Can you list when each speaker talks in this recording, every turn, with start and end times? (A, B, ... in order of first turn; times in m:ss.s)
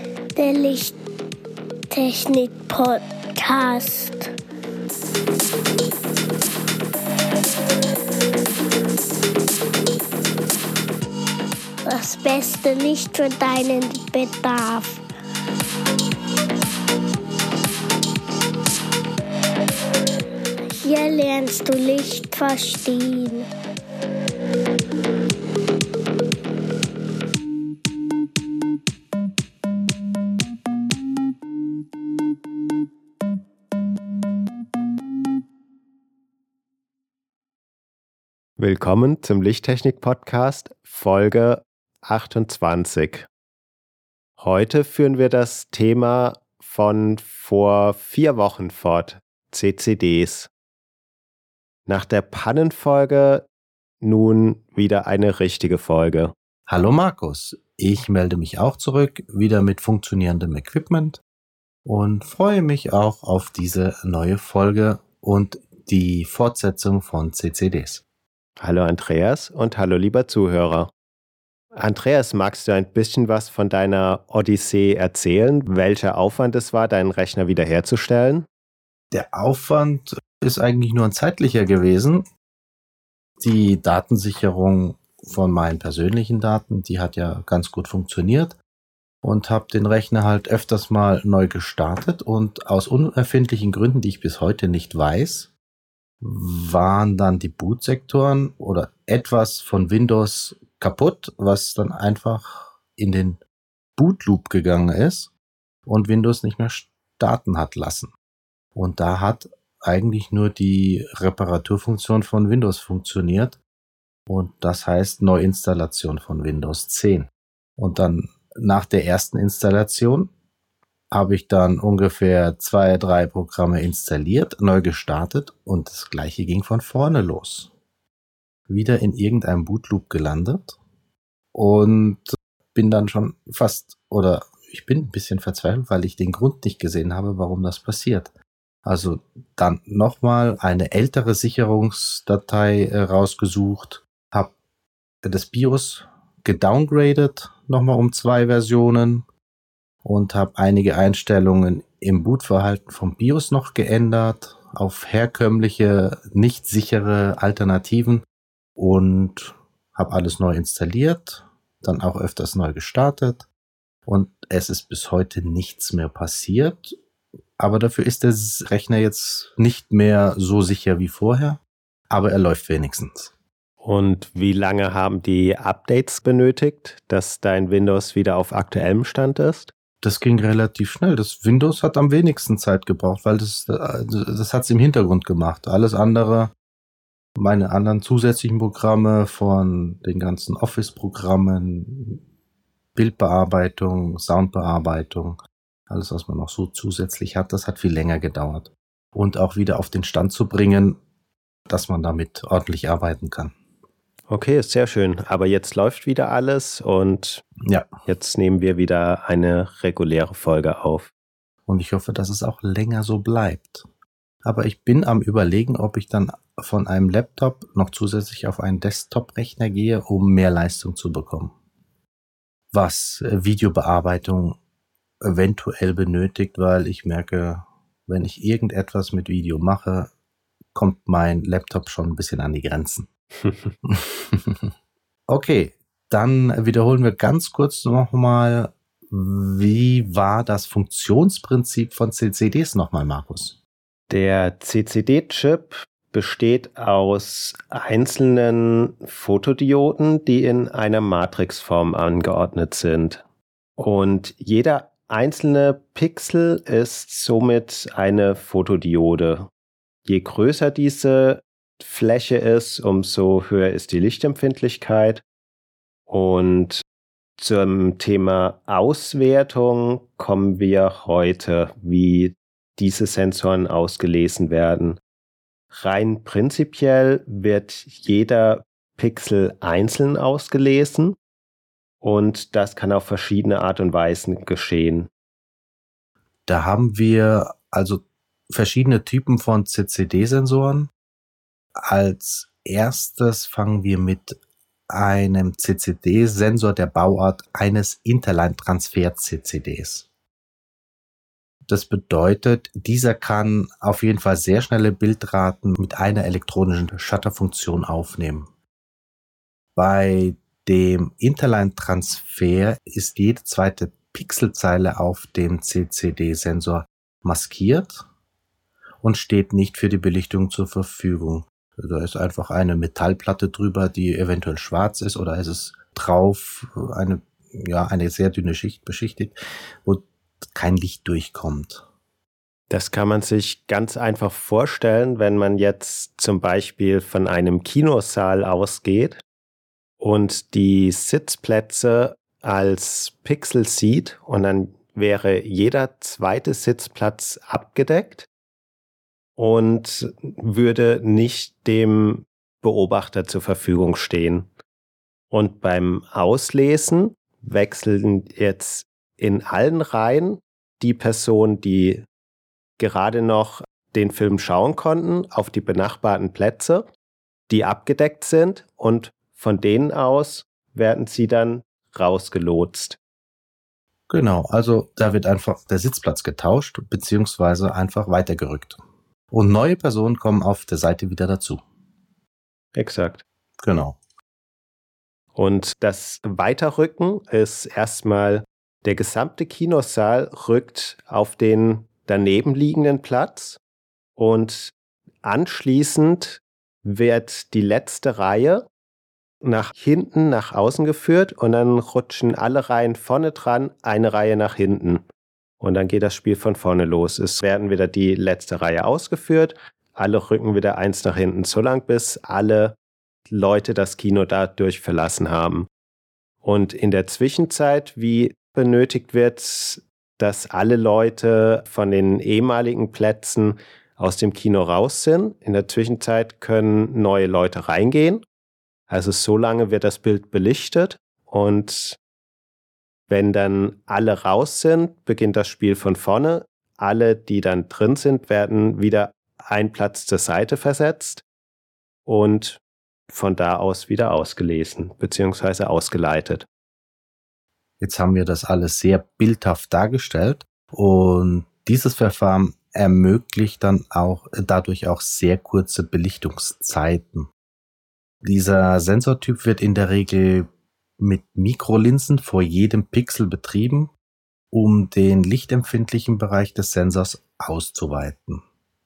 0:00.3-0:01.0 A
0:01.9-0:04.3 A
0:11.8-0:15.0 A
0:20.8-0:23.5 A
0:38.6-0:43.3 B
0:44.4-0:50.5 B
0:51.9-0:53.4 B
0:54.0-0:56.3 B
0:56.7-1:01.2 C
1:01.8-1:08.0 C
1:08.6-1:10.9 B
1:11.7-1:18.5 B
1:19.1-1:22.2 C
1:23.4-1:28.6 C
1:29.2-1:35.5 C
1:36.2-1:43.4 C
1:44.0-1:45.3 C
1:45.8-1:48.1 C
1:48.7-1:53.6 C
1:54.3-2:00.3 C
2:01.1-2:07.7 C
2:08.7-2:10.8 C
2:11.5-2:18.3 C
2:18.8-2:24.5 C
2:25.2-2:29.2 C
2:30.0-2:38.2 C
2:38.8-2:43.5 C
2:44.0-2:47.0 C
2:47.6-2:53.3 C
2:53.8-2:59.7 B
3:00.0-3:06.5 C
3:07.4-3:12.2 C
3:12.9-3:21.0 C
3:21.7-3:23.5 C
3:24.3-3:27.4 B
3:28.0-3:31.1 B
3:31.6-3:33.8 C
3:34.4-3:41.5 C
3:42.7-3:44.6 C
3:45.2-3:50.1 C
3:50.7-3:53.1 C
3:53.4-3:53.7 B
3:53.8-3:54.7 C
3:55.3-4:03.6 C
4:04.1-4:13.2 B
4:13.8-4:19.5 B
4:20.0-4:25.2 B
4:26.1-4:26.8 B
4:27.4-4:35.0 B
4:35.7-4:41.2 B
4:42.0-4:45.1 B
4:46.5-4:50.9 C
4:51.8-5:00.1 C
5:01.7-5:08.5 C
5:09.8-5:18.0 C
5:19.0-5:31.8 C
5:32.7-5:39.2 B
5:40.0-5:48.3 B
5:49.4-5:54.5 B
5:55.3-6:02.0 B
6:02.8-6:06.8 B
6:07.5-6:13.0 B
6:14.1-6:18.8 C
6:19.3-6:21.6 C
6:22.7-6:23.2 B
6:23.6-6:24.0 C
6:25.3-6:33.6 B
6:34.2-6:38.7 B
6:39.4-6:45.0 B
6:45.6-6:52.8 B
6:53.3-6:55.7 B
6:56.4-7:08.2 B
7:08.9-7:12.0 B
7:13.1-7:21.2 B
7:22.0-7:26.4 B
7:27.8-7:37.3 C
7:38.2-7:43.9 C
7:44.5-7:48.4 C